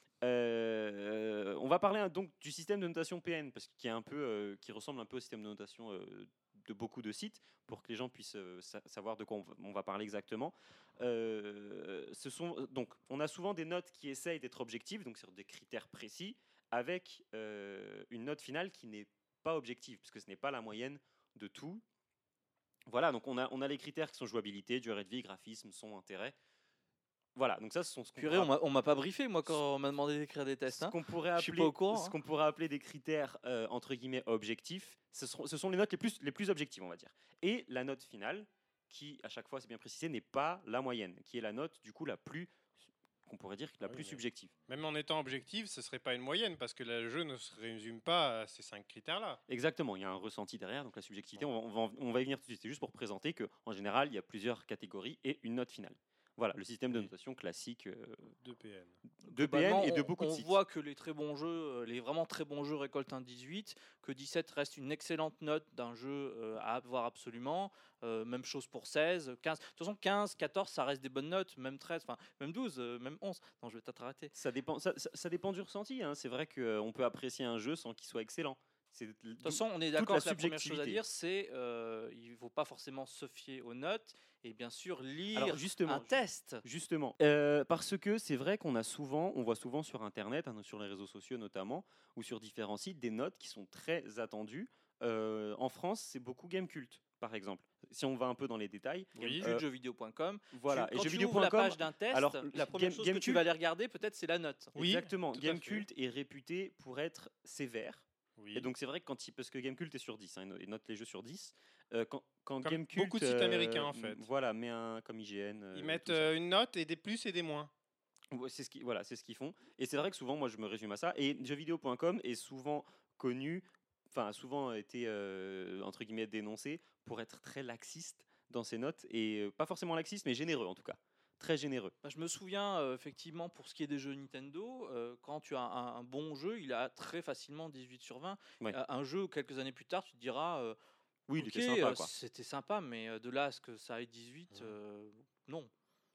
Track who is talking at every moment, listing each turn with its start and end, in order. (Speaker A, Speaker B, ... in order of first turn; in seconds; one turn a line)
Speaker A: 0.2-21.8
Speaker A: 22.9-26.3
Speaker A: 27.3-28.5
Speaker B: 28.2-32.1
Speaker A: 30.7-42.5
Speaker A: 43.2-44.5
Speaker C: 43.8-49.4
Speaker A: 49.5-58.3
Speaker C: 58.4-59.0
Speaker A: 59.2-60.6
Speaker B: 59.2-74.3
Speaker A: 74.3-81.0
Speaker B: 79.4-86.6
Speaker A: 85.3-99.6
Speaker C: 99.2-99.4
Speaker B: 99.2-104.8
Speaker A: 100.5-103.4
Speaker C: 104.8-105.8
Speaker A: 104.8-116.3
Speaker C: 108.4-108.7
Speaker C: 112.6-114.2
Speaker C: 115.7-117.7
Speaker A: 118.3-131.9
Speaker B: 132.0-140.8
Speaker A: 141.3-142.1
Speaker B: 141.4-145.7